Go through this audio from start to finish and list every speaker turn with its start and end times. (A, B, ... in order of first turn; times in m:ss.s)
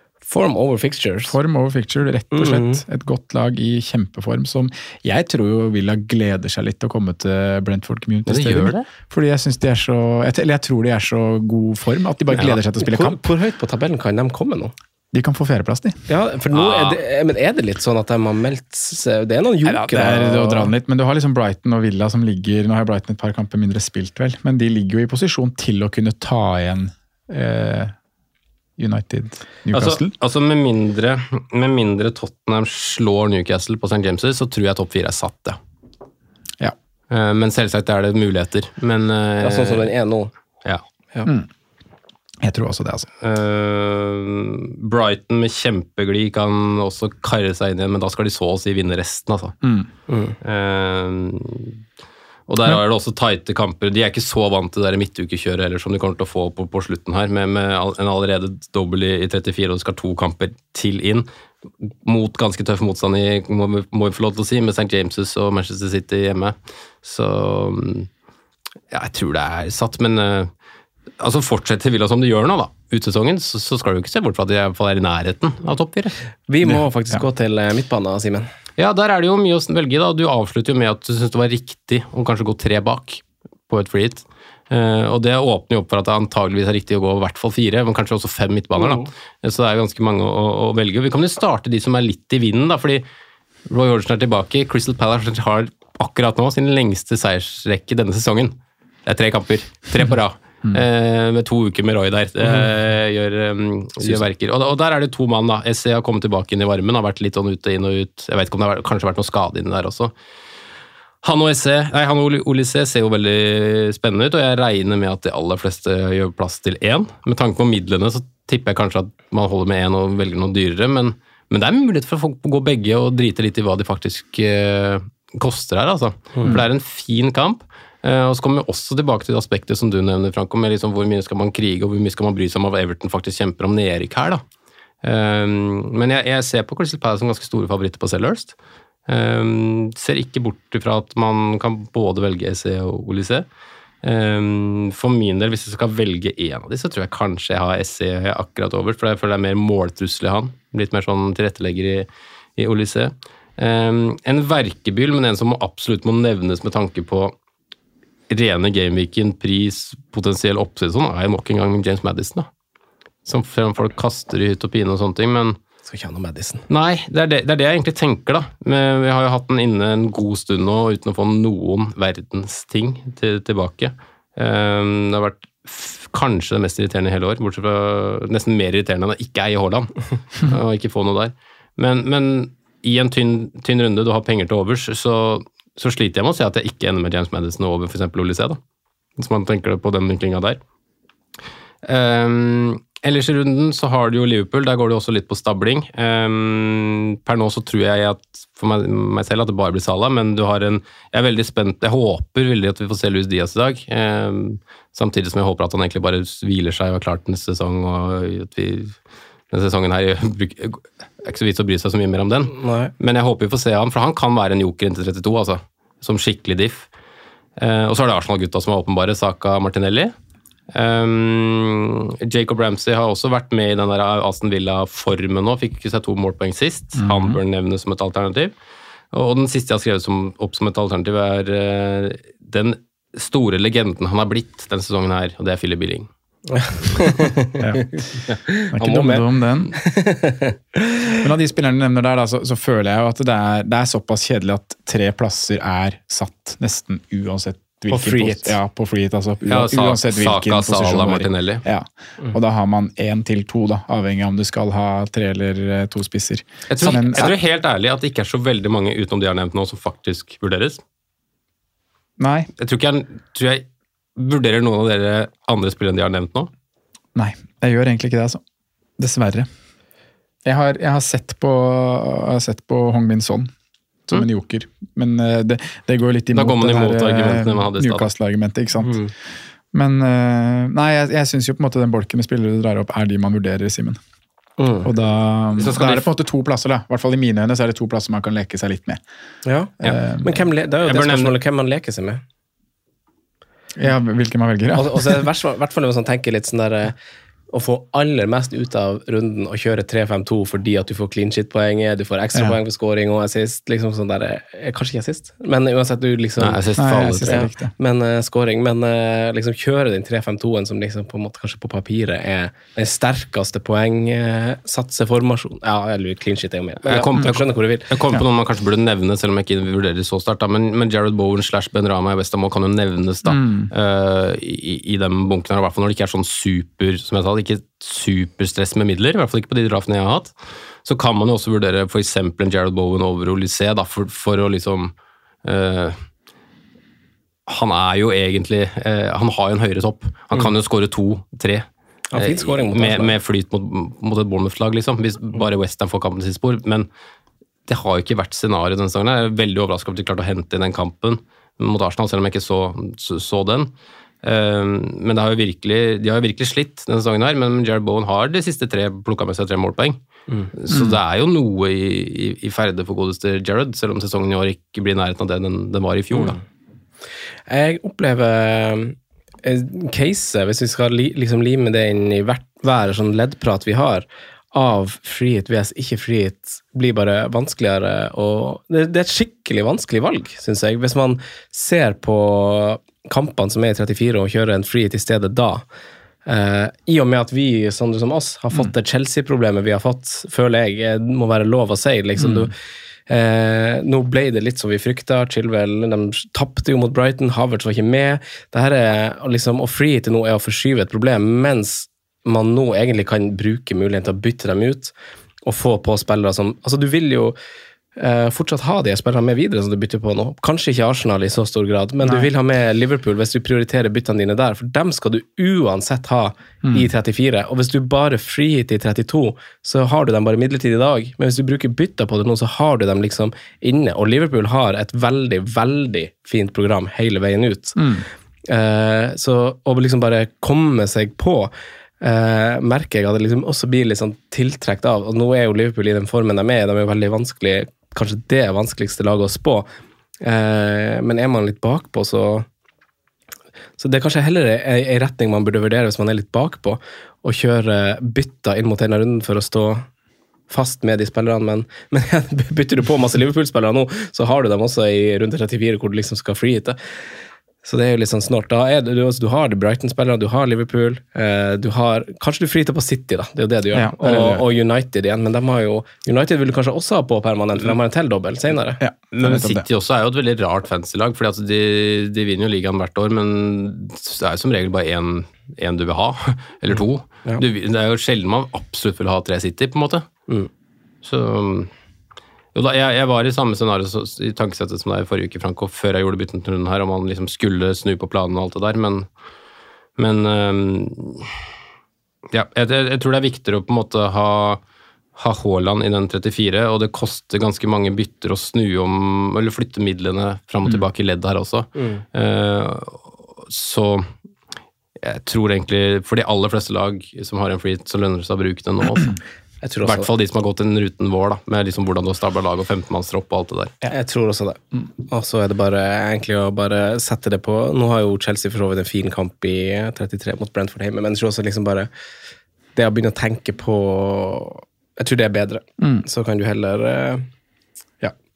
0:00.2-0:01.3 A
0:01.3-0:13.2 B
0:02.3-0:02.8 A
0:08.2-0:08.8 C
0:12.3-0:12.6 C
0:12.8-0:14.7 A
0:15.1-0:16.0 B
0:16.1-0:20.7 A
0:16.5-0:17.0 C
0:19.6-0:27.9 B
0:28.8-0:30.1 B
0:29.7-0:35.6 C
0:37.1-0:39.9 C
0:39.4-0:40.3 A
0:42.4-0:43.1 B
0:43.2-0:49.6 C
0:49.6-0:49.9 B
0:50.1-0:50.3 A
0:50.4-0:51.8 C
0:52.5-1:01.3 C
1:02.0-1:08.1 C
1:08.9-1:10.5 C
1:11.2-1:16.1 C
1:16.5-1:18.5 A
1:18.8-1:33.0 C
1:33.7-1:50.1 C
1:51.2-2:14.4 C
2:15.0-2:18.5 C
2:19.1-2:23.4 C
2:24.0-2:37.3 C
2:38.3-2:42.5 C
2:43.2-2:45.6 C
2:45.9-2:46.6 A
2:46.7-3:08.6 C
3:09.2-3:10.6 C
3:11.8-3:28.9 C
3:29.5-3:36.9 C
3:32.5-3:32.9 A
3:37.6-3:40.1 C
3:40.7-3:48.5 C
3:47.0-3:47.4 B
3:49.1-3:56.1 C
3:56.5-4:01.0 A
3:57.6-3:58.0 B
3:58.7-3:59.8 B
4:01.2-4:17.3 B
4:07.9-4:08.5 A
4:09.5-4:11.6 C
4:16.7-4:20.8 C
4:16.8-4:17.3 A
4:22.2-4:22.5 B
4:22.6-4:23.6 C
4:24.2-4:26.5 C
4:27.1-4:28.4 B
4:29.0-4:29.5 B
4:30.4-4:33.5 B
4:34.1-4:39.0 B
4:36.3-4:38.1 C
4:39.7-4:44.0 B
4:44.6-4:44.9 A
4:44.8-4:49.0 B
4:45.6-4:46.1 C
4:49.4-4:52.2 A
4:49.8-4:50.4 B
4:50.8-4:51.3 C
4:53.8-4:55.2 B
4:54.7-4:56.9 A
4:57.5-5:17.9 A
5:06.4-5:07.4 C
5:06.8-5:07.7 B
5:16.8-5:34.9 C
5:23.2-5:23.7 B
5:35.4-5:36.0 C
5:37.5-5:46.9 C
5:42.1-5:43.1 A
5:47.7-5:53.7 C
5:54.2-6:00.0 C
6:00.5-6:06.4 C
6:00.7-6:01.0 B
6:06.1-6:06.4 A
6:07.5-6:25.6 A
6:26.2-6:32.5 A
6:33.1-6:47.4 A
6:48.0-7:07.8 A
6:56.6-6:56.9 B
7:07.8-7:08.0 B
7:08.5-7:19.7 A
7:20.2-7:22.4 A
7:23.8-7:29.9 A
7:30.5-7:36.8 A
7:37.6-7:48.8 A
7:43.7-7:44.4 B
7:48.8-7:49.6 B
7:49.1-8:00.1 C
8:01.0-8:01.7 C
8:02.5-8:09.1 C
8:10.0-8:11.3 C
8:12.3-8:14.6 C
8:15.2-8:24.1 C
8:21.8-8:22.0 A
8:25.0-8:29.2 C
8:29.6-8:30.1 A
8:29.8-8:33.8 C
8:33.9-8:41.9 A
8:42.8-8:47.2 A
8:45.8-8:46.0 B